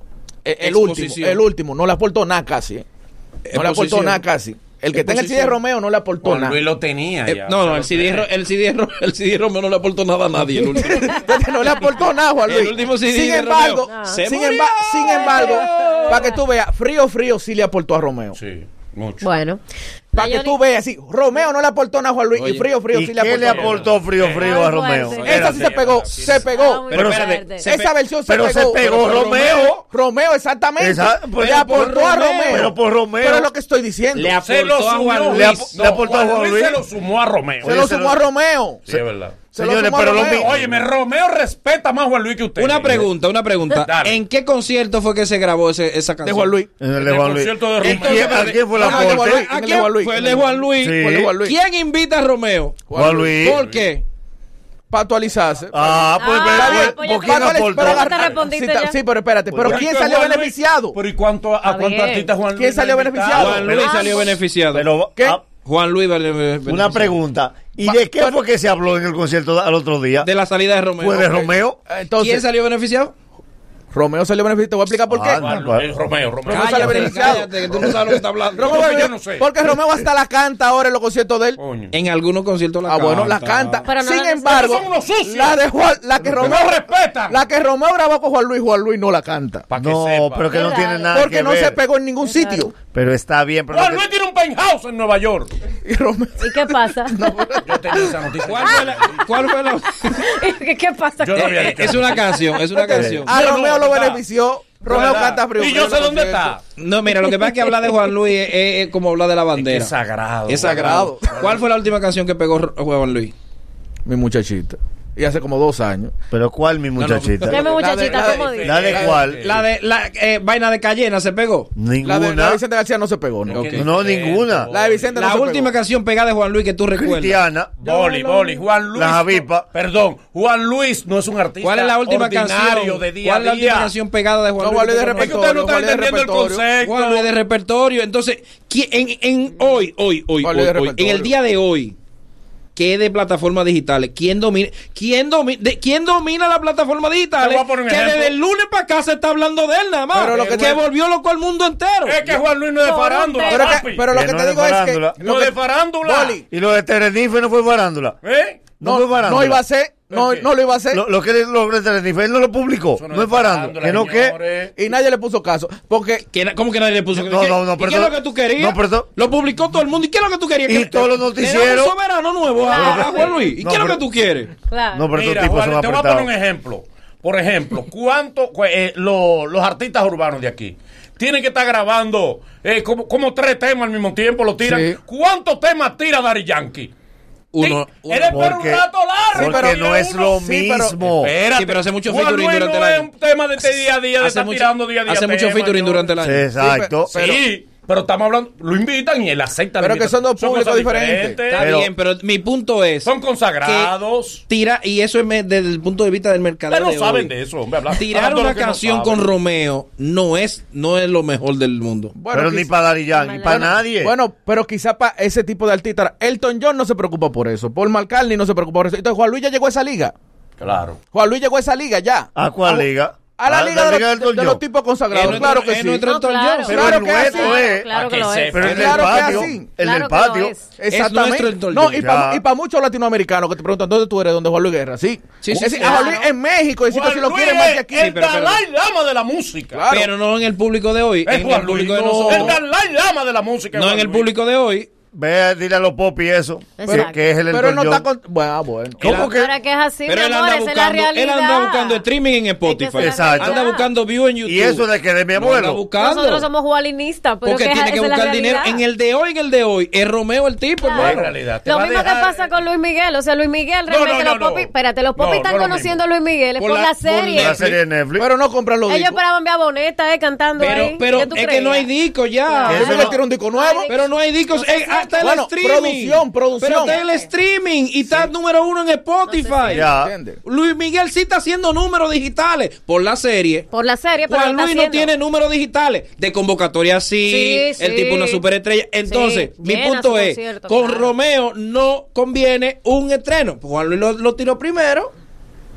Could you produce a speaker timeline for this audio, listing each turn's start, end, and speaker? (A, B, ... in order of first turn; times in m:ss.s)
0:00.5-0:02.8 A
0:00.5-0:01.4 B
0:03.5-0:04.2 B
0:03.5-0:06.6 A
0:05.0-0:05.5 B
0:06.2-0:08.3 C
0:07.3-0:11.3 B
0:10.5-0:18.4 A
0:12.5-0:16.2 B
0:13.9-0:14.3 D
0:15.0-0:16.4 D
0:18.4-0:19.3 C
0:19.2-0:19.6 D
0:20.1-0:20.6 D
0:20.1-0:23.8 A
0:22.4-0:22.7 B
0:22.9-0:25.6 E
0:23.2-0:26.5 C
0:23.8-0:27.7 D
0:25.2-0:27.0 A
0:26.9-0:27.3 E
0:26.9-0:27.9 B
0:27.6-0:34.4 A
0:28.3-0:29.8 E
0:29.1-0:29.8 C
0:30.8-0:33.5 E
0:31.4-0:32.7 B
0:34.2-0:35.9 B
0:34.4-0:37.8 C
0:35.3-0:36.8 E
0:37.6-0:38.2 E
0:37.6-0:38.8 A
0:38.9-0:39.4 C
0:39.5-0:40.5 A
0:39.6-0:40.9 E
0:40.1-0:43.1 C
0:42.6-0:46.6 B
0:43.8-0:44.2 C
0:46.2-0:46.7 A
0:46.8-0:49.4 E
0:47.0-0:48.7 C
0:47.8-0:52.8 B
0:48.6-0:51.6 A
0:50.8-0:51.3 E
0:52.9-0:53.5 A
0:52.9-0:53.6 E
0:53.4-0:54.0 B
0:53.5-0:53.8 C
0:54.9-1:01.0 A
0:55.7-0:58.3 E
0:56.2-0:59.0 D
0:58.2-0:58.4 C
0:59.5-1:03.8 C
1:01.6-1:02.3 D
1:02.5-1:03.6 A
1:03.3-1:04.9 B
1:03.5-1:04.1 E
1:03.6-1:04.4 D
1:04.7-1:05.4 E
1:05.6-1:07.2 B
1:06.7-1:10.3 E
1:07.8-1:08.4 A
1:10.2-1:11.5 B
1:11.0-1:11.8 E
1:11.9-1:12.4 A
1:12.2-1:13.1 B
1:13.9-1:15.4 A
1:15.1-1:15.9 E
1:15.3-1:17.3 C
1:16.5-1:21.6 A
1:16.5-1:19.1 B
1:18.6-1:19.5 C
1:21.6-1:21.9 C
1:21.9-1:23.8 B
1:22.9-1:29.6 A
1:23.8-1:24.8 D
1:24.5-1:25.6 C
1:26.2-1:27.4 C
1:29.7-1:30.6 C
1:29.8-1:31.8 E
1:30.5-1:31.2 D
1:31.1-1:32.7 A
1:32.2-1:32.7 D
1:32.9-1:34.0 E
1:33.7-1:35.5 C
1:35.8-1:38.2 A
1:36.4-1:37.3 D
1:37.6-1:39.5 C
1:38.4-1:40.3 B
1:38.6-1:42.6 D
1:41.2-1:42.4 C
1:41.4-1:43.4 B
1:42.9-1:46.6 A
1:42.9-1:43.2 E
1:43.3-1:44.2 C
1:44.8-1:46.6 C
1:46.8-1:49.9 B
1:47.1-1:48.0 D
1:49.5-1:51.6 C
1:50.5-1:53.3 B
1:50.6-1:51.5 A
1:54.0-1:56.1 A
1:56.3-1:57.7 E
1:57.0-1:57.5 B
1:57.4-1:59.0 D
1:57.5-1:59.2 A
1:57.7-1:59.7 C
1:58.6-1:59.4 E
1:59.4-2:01.7 B
2:01.8-2:02.6 E
2:02.0-2:03.9 A
2:03.4-2:05.2 C
2:03.7-2:04.7 E
2:04.7-2:05.7 A
2:05.2-2:07.4 B
2:06.9-2:07.8 E
2:07.8-2:08.6 A
2:07.8-2:13.9 C
2:08.9-2:09.7 E
2:11.6-2:15.4 B
2:14.6-2:16.7 A
2:15.2-2:17.3 C
2:16.8-2:22.0 B
2:20.4-2:21.3 A
2:22.8-2:32.2 B
2:27.4-2:28.4 C
2:30.1-2:30.8 A
2:30.3-2:30.8 C
2:32.0-2:34.1 C
2:32.8-2:33.8 D
2:33.4-2:36.4 A
2:34.1-2:35.2 E
2:35.2-2:36.4 C
2:36.5-2:38.2 E
2:38.2-2:38.7 C
2:38.8-2:39.6 E
2:38.8-2:41.0 A
2:40.1-2:40.5 C
2:40.9-2:44.4 E
2:43.0-2:44.8 C
2:44.8-2:46.2 A
2:46.3-2:54.5 B
2:47.1-2:49.1 E
2:50.7-2:52.0 E
2:52.6-2:53.4 D
2:52.7-2:54.0 E
2:54.7-2:55.1 D
2:54.9-2:56.3 E
2:55.1-3:06.9 C
3:04.6-3:05.0 A
3:07.5-3:08.5 B
3:07.6-3:10.4 C
3:08.3-3:11.3 E
3:09.4-3:09.8 A
3:10.4-3:11.0 A
3:11.1-3:16.1 C
3:11.5-3:13.1 B
3:14.2-3:16.5 B
3:16.2-3:17.1 E
3:16.6-3:17.4 A
3:17.0-3:21.7 C
3:19.8-3:21.5 A
3:21.5-3:23.9 B
3:21.6-3:21.9 E
3:23.0-3:24.4 C
3:24.5-3:27.3 B
3:26.7-3:29.3 C
3:27.9-3:32.1 B
3:32.2-3:32.7 A
3:32.3-3:34.1 E
3:33.1-3:33.9 D
3:33.4-3:40.1 A
3:40.6-3:41.0 C
3:41.1-3:46.1 A
3:42.4-3:44.6 E
3:45.1-3:46.8 B
3:45.3-3:50.7 D
3:46.7-3:47.4 A
3:46.7-3:47.9 E
3:47.9-3:49.2 C
3:48.5-3:50.5 E
3:48.6-3:49.8 A
3:50.7-3:58.1 A
3:50.9-3:51.9 B
3:51.8-3:52.4 E
3:55.4-3:56.2 B
3:55.6-3:56.3 D
3:56.9-3:59.9 C
3:58.0-3:58.6 B
3:59.7-4:00.1 A
3:59.9-4:02.6 B
4:01.3-4:04.3 C
4:01.9-4:02.6 A
4:03.7-4:04.9 B
4:05.1-4:08.0 E
4:06.8-4:07.2 D
4:06.8-4:09.2 A
4:09.0-4:09.5 E
4:09.0-4:09.3 B
4:09.2-4:12.0 D
4:10.1-4:16.5 B
4:12.6-4:13.9 D
4:13.0-4:13.6 E
4:14.4-4:15.8 E
4:15.9-4:18.8 D
4:17.4-4:21.2 B
4:20.8-4:27.6 D
4:21.0-4:22.6 C
4:21.0-4:21.3 E
4:23.9-4:26.0 C
4:26.6-4:27.7 B
4:26.6-4:27.6 C
4:27.3-4:28.2 E
4:28.2-4:29.2 A
4:28.9-4:31.9 D
4:30.6-4:33.0 B
4:32.5-4:35.3 D
4:32.7-4:33.1 E
4:32.7-4:33.9 A
4:33.9-4:39.9 B
4:35.2-4:37.0 A
4:36.5-4:37.3 D
4:39.3-4:39.9 D
4:39.7-4:40.1 E
4:39.8-4:40.4 A
4:40.4-4:43.7 B
4:43.7-4:45.1 D
4:44.3-4:55.1 B
4:47.2-4:48.4 D
4:49.1-4:51.1 D